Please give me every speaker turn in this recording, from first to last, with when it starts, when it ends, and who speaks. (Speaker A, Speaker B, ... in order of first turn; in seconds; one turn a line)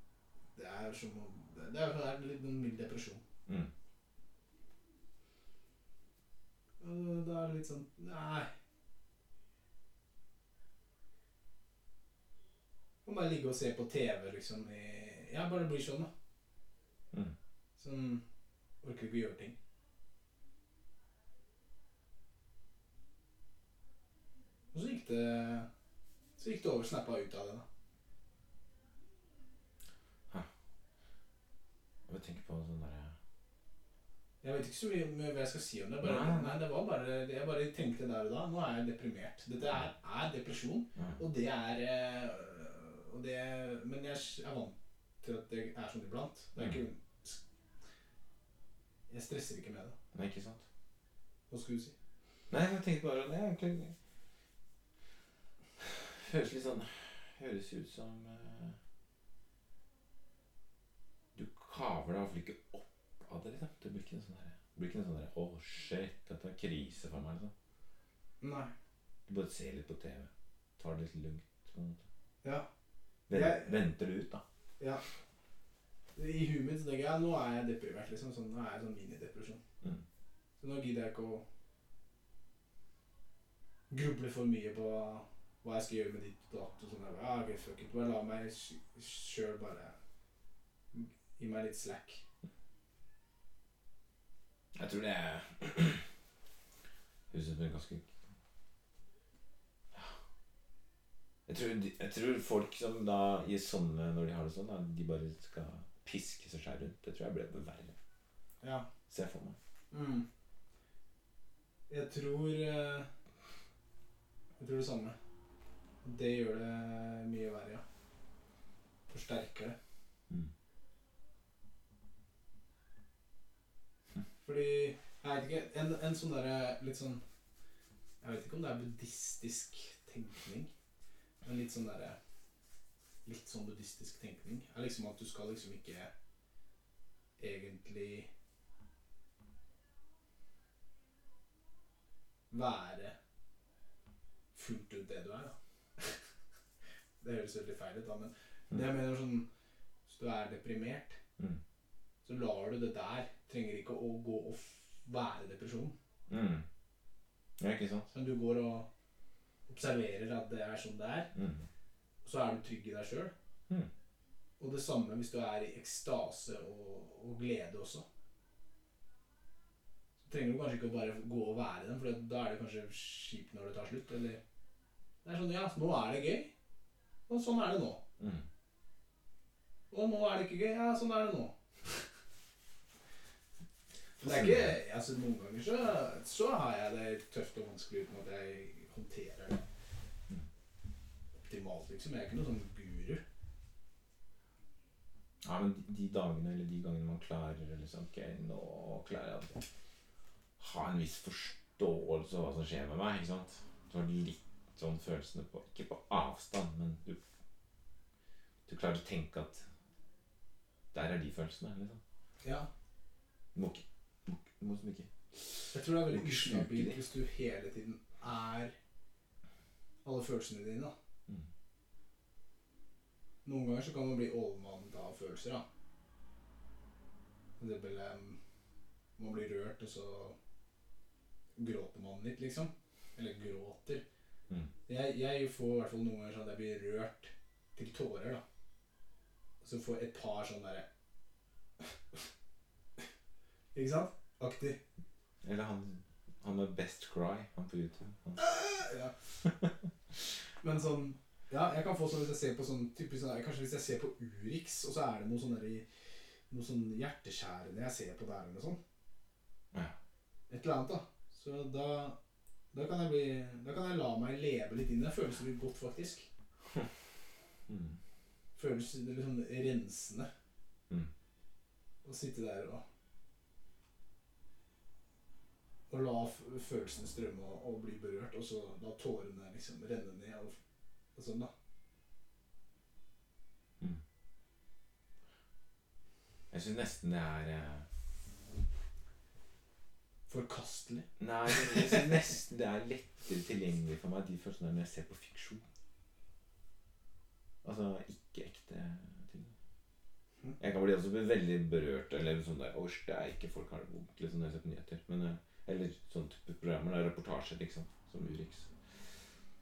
Speaker A: 0.6-3.2
Speaker A: 6.8-8.5
Speaker A: 13.1-16.1
Speaker A: 17.8-18.2
Speaker A: 18.8-19.6
Speaker A: 24.7-25.7
Speaker A: 26.4-27.7
Speaker B: 32.1-33.2
Speaker A: 34.4-47.4
Speaker B: 36.0-36.6
Speaker B: 41.0-41.2
Speaker B: 46.6-46.8
Speaker A: 49.1-50.0
Speaker B: 50.1-50.7
Speaker A: 51.5-52.0
Speaker B: 52.5-54.0
Speaker B: 55.8-58.8
Speaker B: 61.4-67.5
Speaker A: 68.4-68.7
Speaker B: 69.3-72.1
Speaker A: 72.4-72.7
Speaker A: 73.3-73.8
Speaker B: 73.3-74.4
Speaker A: 76.2-79.6
Speaker A: 80.6-81.5
Speaker A: 83.9-90.0
Speaker A: 90.9-92.2
Speaker B: 94.8-96.1
Speaker B: 97.3-98.1
Speaker B: 99.9-100.2
Speaker B: 101.5-108.0
Speaker A: 108.6-108.9
Speaker B: 109.1-109.6
Speaker A: 109.9-110.3
Speaker A: 111.9-113.1
Speaker A: 114.6-115.2
Speaker A: 116.0-117.8
Speaker A: 119.1-119.8
Speaker A: 124.5-127.2
Speaker A: 128.2-130.7
Speaker A: 131.4-132.2
Speaker A: 133.2-136.1
Speaker A: 137.4-138.3
Speaker A: 142.5-143.2
Speaker A: 144.5-146.2
Speaker A: 147.2-149.5
Speaker A: 150.1-151.2
Speaker A: 152.2-155.9
Speaker B: 156.3-156.7
Speaker B: 157.6-158.1
Speaker A: 158.1-158.9
Speaker A: 159.7-161.3
Speaker B: 161.3-161.7
Speaker A: 162.2-163.3
Speaker A: 164.6-168.1
Speaker A: 170.2-174.4
Speaker A: 175.2-176.5
Speaker A: 177.3-178.0
Speaker B: 178.2-178.5
Speaker A: 179.9-182.1
Speaker B: 184.2-184.8
Speaker A: 184.2-189.6
Speaker A: 191.4-193.2
Speaker B: 195.4-199.7
Speaker B: 200.6-207.2
Speaker B: 208.7-209.7
Speaker B: 210.9-212.0
Speaker A: 212.4-212.7
Speaker B: 213.6-217.0
Speaker A: 215.7-218.8
Speaker A: 220.0-220.9
Speaker A: 223.4-225.7
Speaker A: 227.6-228.4
Speaker A: 229.2-230.4
Speaker A: 231.6-234.0
Speaker A: 234.9-238.4
Speaker A: 239.6-240.9
Speaker A: 241.8-242.2
Speaker A: 243.7-244.8
Speaker B: 245.4-248.6
Speaker A: 248.4-249.2
Speaker B: 249.4-249.8
Speaker A: 250.6-258.8
Speaker A: 260.5-262.2
Speaker A: 262.7-266.3
Speaker B: 267.7-268.0
Speaker A: 268.6-270.3
Speaker A: 272.0-272.8
Speaker A: 275.9-280.6
Speaker A: 281.1-281.5
Speaker B: 286.5-287.9
Speaker A: 290.3-292.2
Speaker B: 291.2-295.6
Speaker B: 297.6-299.6
Speaker B: 300.6-309.1